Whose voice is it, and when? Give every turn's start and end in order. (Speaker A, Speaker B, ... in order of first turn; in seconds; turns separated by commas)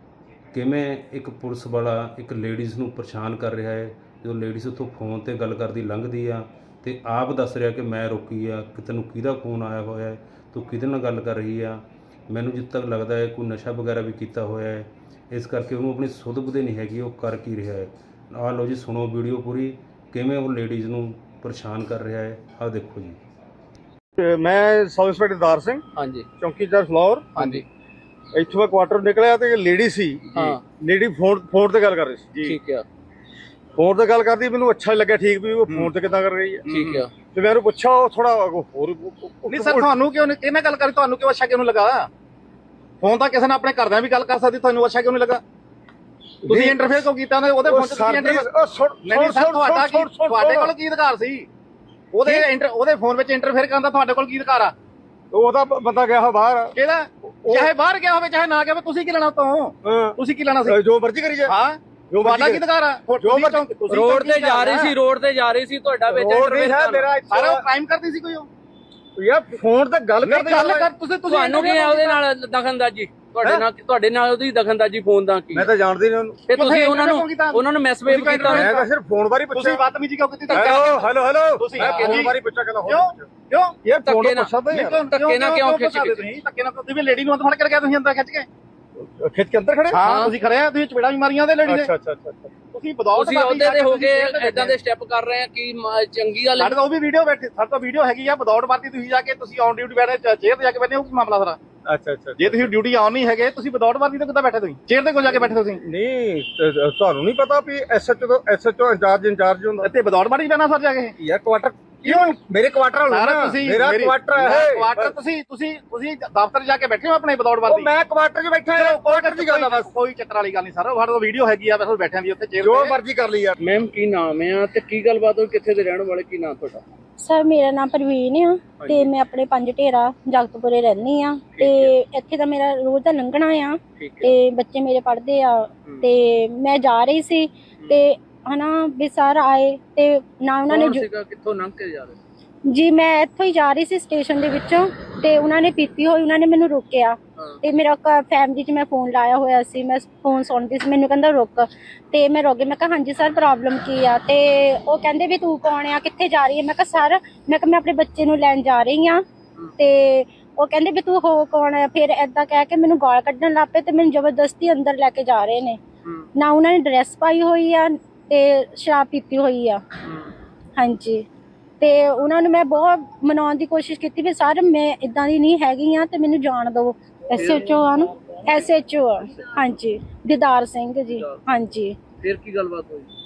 Speaker A: 0.5-23.2, Speaker B: 24.2-25.8, Speaker C: 25.9-26.2, Speaker B: 26.4-27.6, Speaker C: 27.4-27.6, Speaker B: 28.3-32.6, Speaker C: 30.3-30.6, Speaker C: 32.4-32.8, Speaker B: 33.8-36.6, Speaker D: 36.6-37.0, Speaker C: 36.7-37.1, Speaker B: 37.3-39.9, Speaker D: 39.5-42.1, Speaker D: 43.0-45.4, Speaker B: 46.4-47.0, Speaker D: 46.5-48.5, Speaker B: 47.6-50.7, Speaker D: 49.0-51.5, Speaker D: 52.1-54.7, Speaker B: 55.3-56.7, Speaker D: 56.8-60.8, Speaker B: 57.4-57.7, Speaker B: 59.8-61.5, Speaker D: 61.5-64.9, Speaker B: 62.1-62.6, Speaker B: 63.2-63.6, Speaker C: 63.9-67.1, Speaker B: 66.1-67.6, Speaker D: 67.3-68.5, Speaker B: 69.2-70.9, Speaker D: 70.2-72.2, Speaker C: 71.2-75.7, Speaker B: 75.5-76.4, Speaker C: 76.5-78.7, Speaker D: 76.5-78.9, Speaker B: 78.4-79.8, Speaker D: 79.5-81.0, Speaker B: 80.5-83.2, Speaker C: 80.5-81.0, Speaker D: 81.6-82.3, Speaker C: 81.8-82.2, Speaker D: 82.8-83.8, Speaker B: 83.8-85.0, Speaker C: 84.0-84.5, Speaker D: 84.7-88.5, Speaker C: 85.1-86.2, Speaker B: 89.0-90.0, Speaker D: 89.9-91.9, Speaker C: 90.0-90.3, Speaker B: 91.7-92.5, Speaker D: 92.7-94.8, Speaker C: 93.1-96.8, Speaker D: 96.6-101.6, Speaker B: 101.8-102.7, Speaker D: 102.4-105.8, Speaker B: 105.8-109.9, Speaker D: 109.8-111.2, Speaker B: 111.2-115.1, Speaker D: 112.0-112.3, Speaker D: 113.1-117.9, Speaker B: 117.7-119.9, Speaker D: 118.7-123.0, Speaker B: 122.6-123.5, Speaker C: 123.6-126.8, Speaker E: 127.2-141.1, Speaker C: 128.8-129.1, Speaker C: 131.5-131.9, Speaker C: 134.0-134.4, Speaker C: 140.7-142.2, Speaker E: 142.7-159.2, Speaker E: 159.8-165.8, Speaker E: 166.3-169.8, Speaker E: 170.8-171.2, Speaker E: 171.8-182.0, Speaker C: 177.3-177.8, Speaker C: 181.1-181.4, Speaker C: 182.2-183.1